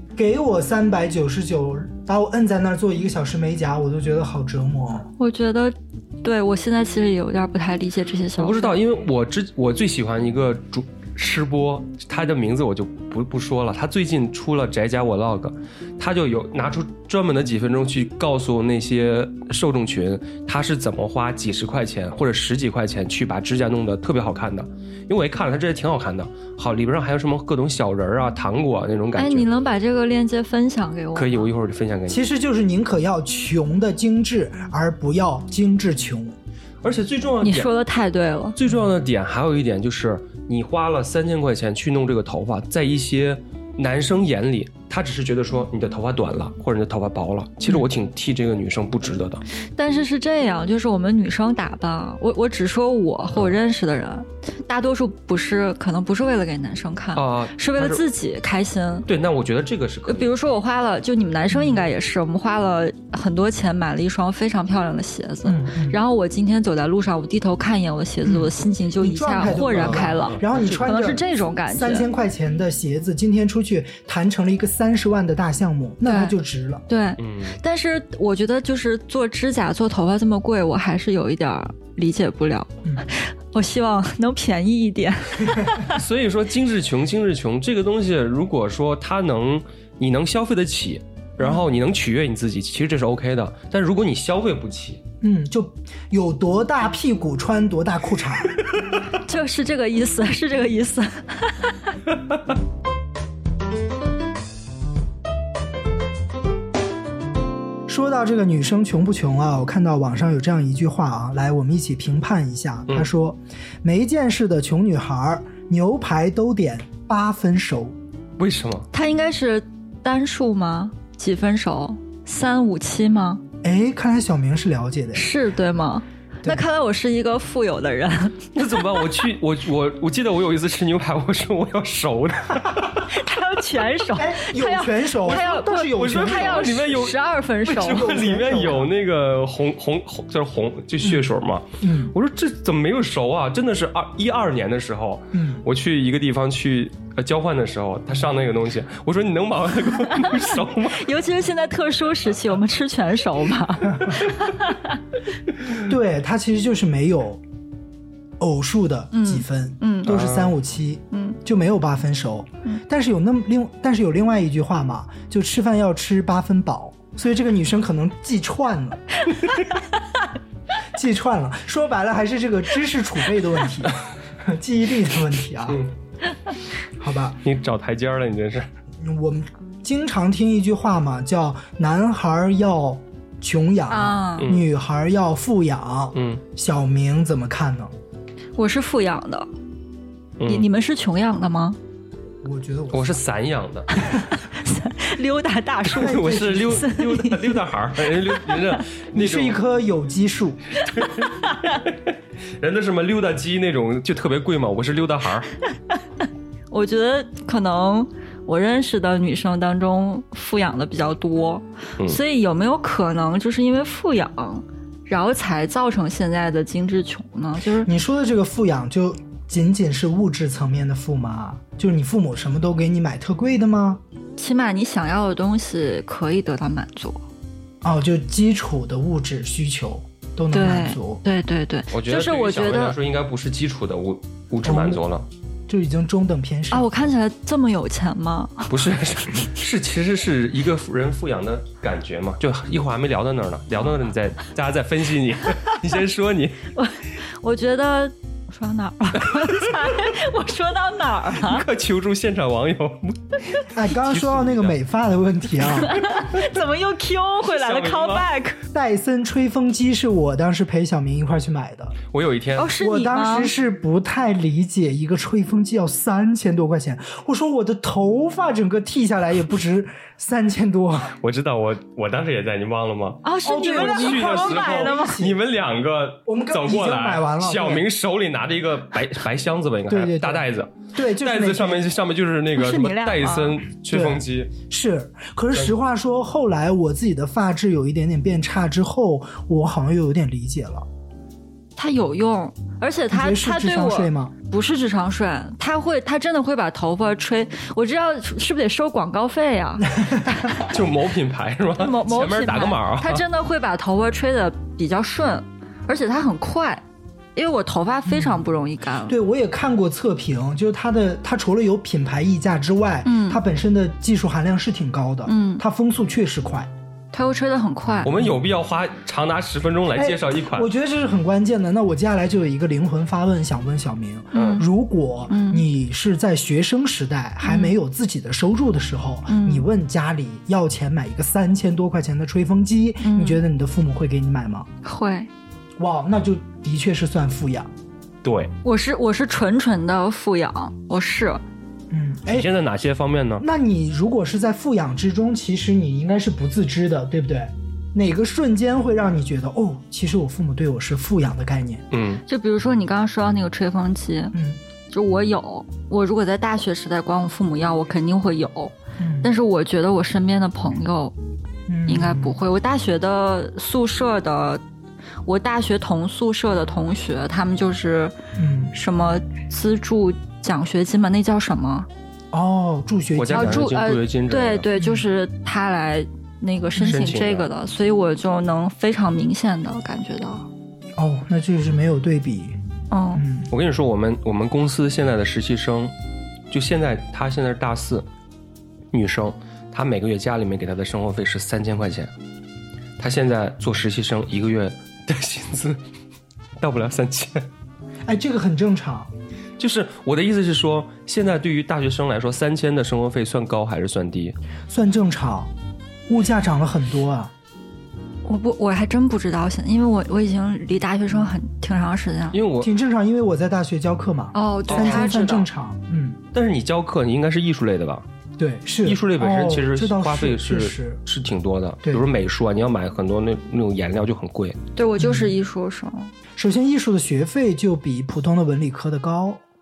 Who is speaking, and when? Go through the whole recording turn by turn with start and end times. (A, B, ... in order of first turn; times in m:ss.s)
0:00.2-0:05.1 A
0:05.2-0:08.8 B
0:08.4-0:29.5 C
0:29.2-0:31.5 B
0:31.1-0:32.2 C
0:32.1-0:36.3 A
0:36.8-0:37.7 C
0:37.4-0:38.6 B
0:38.6-0:49.4 C
0:49.8-0:59.1 B
0:57.2-0:58.0 C
0:59.1-1:00.3 C
1:00.1-1:12.1 B
1:01.5-1:01.8 A
1:05.4-1:06.0 A
1:08.2-1:16.8 A
1:09.4-1:10.9 C
1:16.0-1:16.3 B
1:16.9-1:26.0 B
1:17.2-1:17.6 C
1:25.9-1:35.0 C
1:35.2-1:38.6 A
1:39.2-1:41.9 B
1:47.9-1:58.0 A
1:58.4-1:58.9 C
1:58.9-2:03.4 B
2:03.6-2:05.3 A
2:05.1-2:09.0 B
2:08.5-2:13.1 C
2:13.0-2:18.2 B
2:14.1-2:16.8 A
2:15.3-2:31.0 C
2:17.7-2:18.9 A
2:21.0-2:21.2 A
2:21.8-2:22.1 A
2:25.3-2:25.6 A
2:30.0-2:35.0 B
2:35.7-2:37.4 A
2:38.4-2:49.0 A
2:39.1-2:40.1 B
2:40.0-2:40.5 C
2:41.1-2:41.4 B
2:50.9-2:55.8 A
2:57.0-2:57.4 A
2:57.4-2:58.7 C
2:59.0-3:07.9 A
3:03.9-3:04.5 B
3:04.4-3:04.6 C
3:06.1-3:06.4 C
3:08.6-3:09.5 B
3:10.4-3:10.7 C
3:10.4-3:11.8 B
3:12.4-3:13.2 A
3:12.9-3:14.0 C
3:14.0-3:17.6 B
3:15.9-3:16.9 A
3:15.9-3:19.6 C
3:18.3-3:18.8 B
3:19.1-3:20.6 A
3:20.8-3:21.8 B
3:20.9-3:25.5 C
3:26.7-3:37.9 B
3:37.8-3:44.0 A
3:44.4-3:47.2 B
3:47.8-3:51.2 A
3:50.5-3:53.0 B
3:51.9-3:55.2 C
3:54.6-3:55.0 A
3:55.7-3:56.9 A
3:56.7-3:58.7 B
3:58.7-4:06.6 C
4:06.7-4:11.6 B
4:09.3-4:09.7 C
4:11.4-4:14.8 C
4:13.7-4:16.0 A
4:15.8-4:18.6 B
4:17.5-4:18.3 C
4:18.7-4:22.0 A
4:22.1-4:22.7 C
4:22.6-4:23.5 B
4:22.8-4:31.2 A
4:31.2-4:44.5 C
4:33.2-4:35.2 B
4:33.4-4:35.4 A
4:36.3-4:37.9 A
4:39.9-4:41.9 A
4:42.5-4:43.6 B
4:43.9-4:50.9 A
4:51.8-5:00.7 B
4:53.1-4:54.3 A
4:59.9-5:00.5 A
5:00.6-5:03.2 C
5:01.8-5:06.8 B
5:07.3-5:09.1 B
5:08.0-5:08.4 A
5:09.1-5:16.7 A
5:13.0-5:13.4 B
5:15.2-5:15.6 B
5:17.1-5:18.3 B
5:18.0-5:20.7 C
5:19.9-5:34.7 A
5:24.3-5:24.6 C
5:24.3-5:24.7 B
5:25.3-5:25.6 B
5:27.4-5:27.7 B
5:29.3-5:29.6 B
5:33.0-5:33.4 B
5:34.8-5:35.3 B
5:35.8-5:37.7 A
5:38.2-5:38.5 C
5:38.6-5:41.4 B
5:41.9-5:42.5 A
5:42.3-5:43.4 C
5:43.4-5:51.8 A
5:51.9-5:52.2 C
5:52.3-5:54.4 B
5:54.3-5:54.6 A
5:54.9-6:01.1 B
5:59.0-5:59.3 A
6:01.7-6:02.4 A
6:01.9-6:04.6 B
6:05.2-6:08.1 B
6:08.4-6:08.7 A
6:08.7-6:11.9 B
6:12.3-6:13.7 A
6:13.2-6:14.6 C
6:13.3-6:20.5 B
6:14.8-6:15.0 A
6:16.8-6:17.5 C
6:21.0-6:22.6 A
6:22.9-6:23.2 B
6:23.2-6:23.5 A
6:23.5-6:25.9 C
6:26.5-6:28.0 C
6:28.9-6:32.1 C
6:33.0-6:35.8 C
6:36.6-6:37.5 C
6:38.0-6:39.1 A
6:39.6-6:44.3 C
6:44.7-6:45.5 A
6:46.1-6:47.3 A
6:48.2-6:52.4 B
6:52.3-6:52.7 C
6:52.6-6:56.2 A
6:54.3-6:55.4 B
6:54.7-6:55.4 C
6:56.3-6:58.0 C
6:58.4-7:01.0 A
6:58.8-7:04.6 C
7:04.8-7:06.1 B
7:05.0-7:05.3 A
7:06.4-7:09.4 A